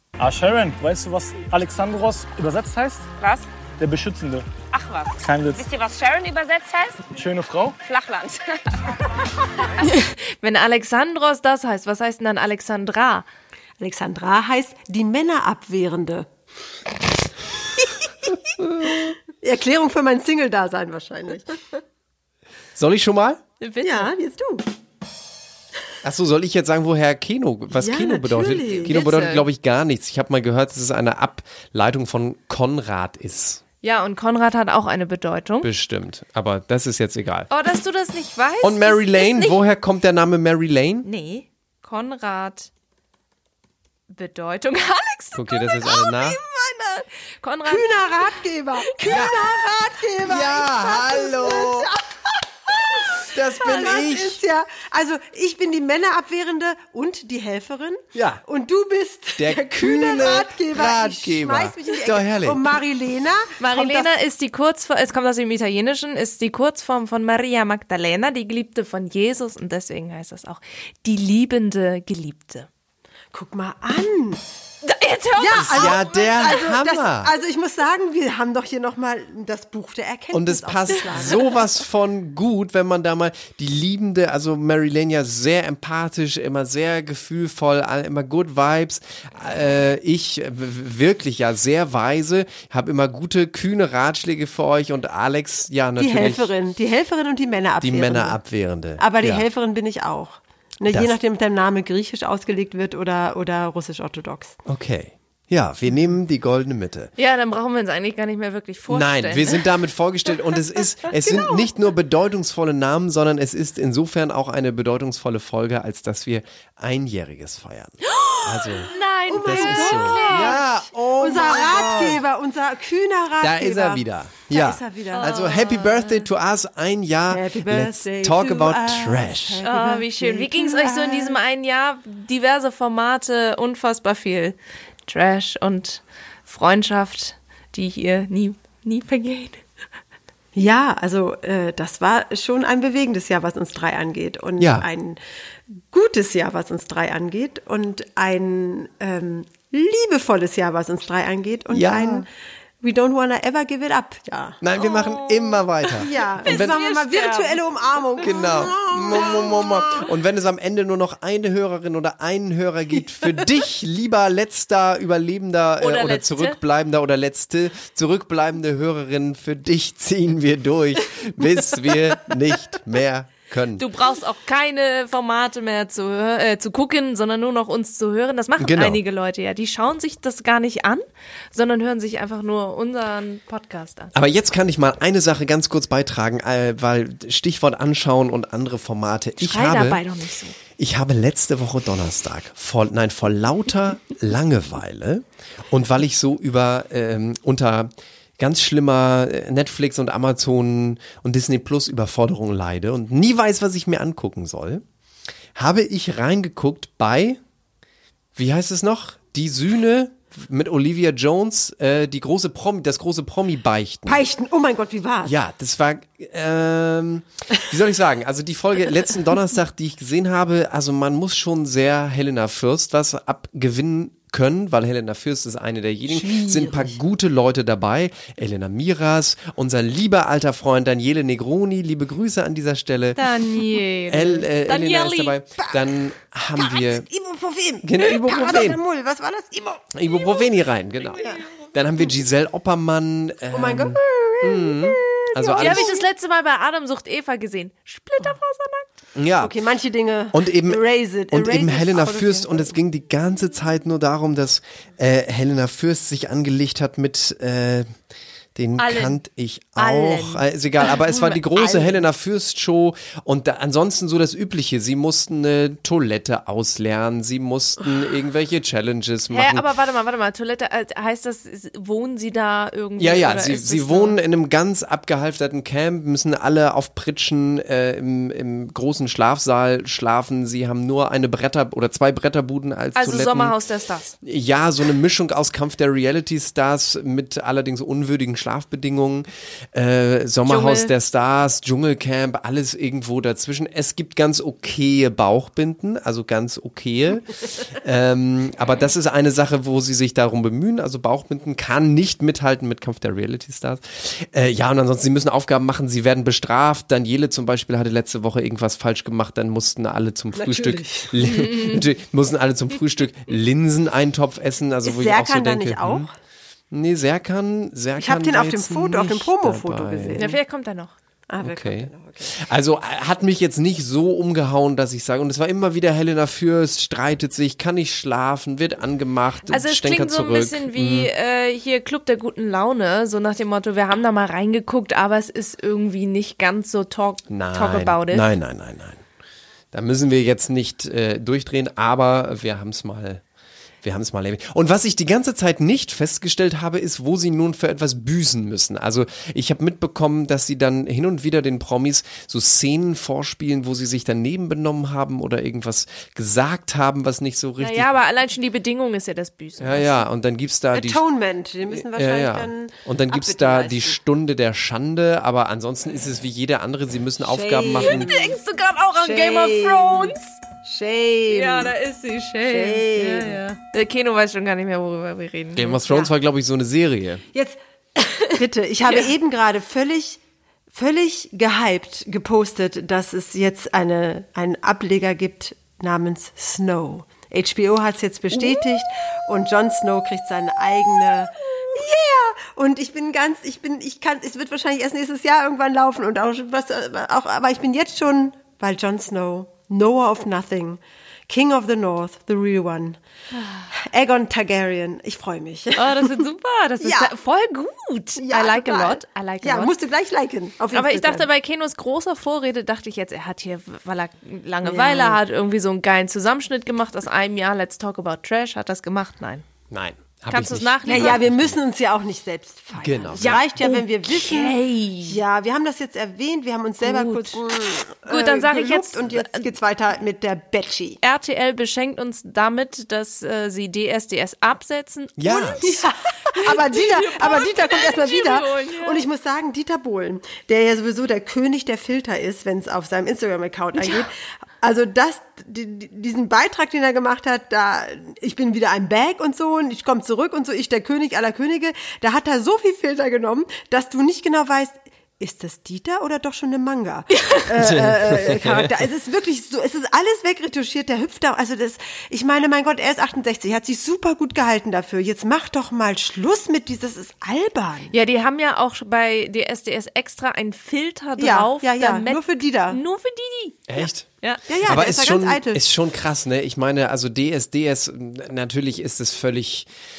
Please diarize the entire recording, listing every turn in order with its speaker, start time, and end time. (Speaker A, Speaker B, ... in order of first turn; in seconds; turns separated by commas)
Speaker A: 0.2-3.1, Speaker B: 3.2-3.5, Speaker A: 3.8-4.5, Speaker B: 4.7-7.0, Speaker A: 5.2-5.7, Speaker A: 7.1-7.8, Speaker B: 7.8-8.8, Speaker C: 9.8-13.3, Speaker D: 13.8-16.3, Speaker D: 17.8-21.6, Speaker E: 18.7-19.0, Speaker E: 22.8-23.4, Speaker C: 23.6-24.1, Speaker D: 23.8-24.6, Speaker E: 26.0-33.6, Speaker D: 27.7-29.0, Speaker C: 28.9-29.4, Speaker C: 33.8-35.7, Speaker E: 35.6-37.5, Speaker C: 37.5-39.6, Speaker E: 38.6-41.1, Speaker C: 41.0-42.7, Speaker C: 44.1-48.4, Speaker E: 45.3-46.4, Speaker D: 47.7-64.1, Speaker C: 49.0-49.3, Speaker E: 49.1-49.4, Speaker E: 50.2-51.9, Speaker E: 53.2-54.4, Speaker E: 58.1-58.4, Speaker E: 59.4-62.6, Speaker C: 63.6-72.7, Speaker D: 73.3-74.4, Speaker C: 74.8-76.5, Speaker D: 75.4-81.4, Speaker E: 75.5-77.3, Speaker E: 80.3-96.5, Speaker D: 96.0-98.4, Speaker E: 97.8-99.5, Speaker D: 98.9-104.6, Speaker E: 100.9-101.2, Speaker E: 104.7-107.1, Speaker C: 107.2-109.6, Speaker E: 108.9-122.2, Speaker C: 118.0-120.6, Speaker D: 119.3-120.7, Speaker D: 121.2-125.4, Speaker E: 123.4-129.6, Speaker C: 125.1-126.2, Speaker D: 127.3-131.4, Speaker C: 129.6-139.6, Speaker D: 140.5-145.2, Speaker E: 144.6-144.9, Speaker D: 145.9-152.3, Speaker E: 151.7-152.2, Speaker D: 152.8-154.6, Speaker E: 154.6-156.8, Speaker C: 154.8-157.6, Speaker D: 156.0-159.8, Speaker E: 158.2-173.8, Speaker C: 165.8-166.6, Speaker C: 173.8-184.1, Speaker E: 178.6-179.0, Speaker E: 184.1-190.0, Speaker C: 189.4-190.6, Speaker E: 190.8-204.8, Speaker E: 205.5-207.4, Speaker E: 208.3-214.2, Speaker D: 214.1-215.3, Speaker E: 215.2-233.3, Speaker D: 226.1-227.0, Speaker C: 233.2-235.3, Speaker E: 234.1-237.1, Speaker D: 236.6-239.9, Speaker E: 237.8-238.8, Speaker E: 239.9-245.9, Speaker C: 241.1-241.5, Speaker D: 243.5-246.0, Speaker C: 245.6-248.8, Speaker E: 249.2-249.5, Speaker D: 249.4-252.8, Speaker E: 250.3-257.9, Speaker E: 258.5-269.7, Speaker C: 258.8-259.2, Speaker C: 259.8-262.0, Speaker C: 269.3-274.2, Speaker E: 273.0-283.6, Speaker C: 282.9-284.1, Speaker E: 284.2-316.1, Speaker C: 290.4-290.9, Speaker D: 310.4-311.1, Speaker C: 311.4-311.8, Speaker D: 314.8-316.1, Speaker E: 316.7-320.3, Speaker D: 318.0-320.4, Speaker C: 320.2-320.9, Speaker D: 321.3-322.3, Speaker E: 321.4-331.1, Speaker C: 329.5-338.3, Speaker E: 337.3-339.0, Speaker E: 339.7-343.2, Speaker E: 343.8-357.9, Speaker C: 357.6-360.0, Speaker E: 359.6-361.0, Speaker D: 360.7-363.9, Speaker E: 361.7-368.1, Speaker D: 367.2-368.2, Speaker C: 367.8-370.3, Speaker D: 368.9-371.7, Speaker C: 371.3-376.0, Speaker D: 372.4-373.4, Speaker E: 375.5-377.2, Speaker D: 377.3-380.2, Speaker D: 380.7-403.0, Speaker C: 403.4-403.7, Speaker D: 403.7-406.1, Speaker C: 405.8-409.7, Speaker D: 406.8-407.1, Speaker D: 408.2-411.2, Speaker C: 410.7-419.4, Speaker D: 414.6-415.2, Speaker E: 419.7-421.6, Speaker C: 420.3-421.2, Speaker D: 420.9-431.0, Speaker E: 422.8-423.4, Speaker C: 423.2-425.2, Speaker C: 426.8-427.4, Speaker C: 428.1-429.4, Speaker C: 431.0-439.0, Speaker E: 435.2-435.6, Speaker D: 435.6-467.9, Speaker C: 443.7-444.1, Speaker E: 457.6-458.8, Speaker C: 467.9-473.6, Speaker D: 471.2-472.8, Speaker E: 473.7-479.7, Speaker D: 474.5-475.6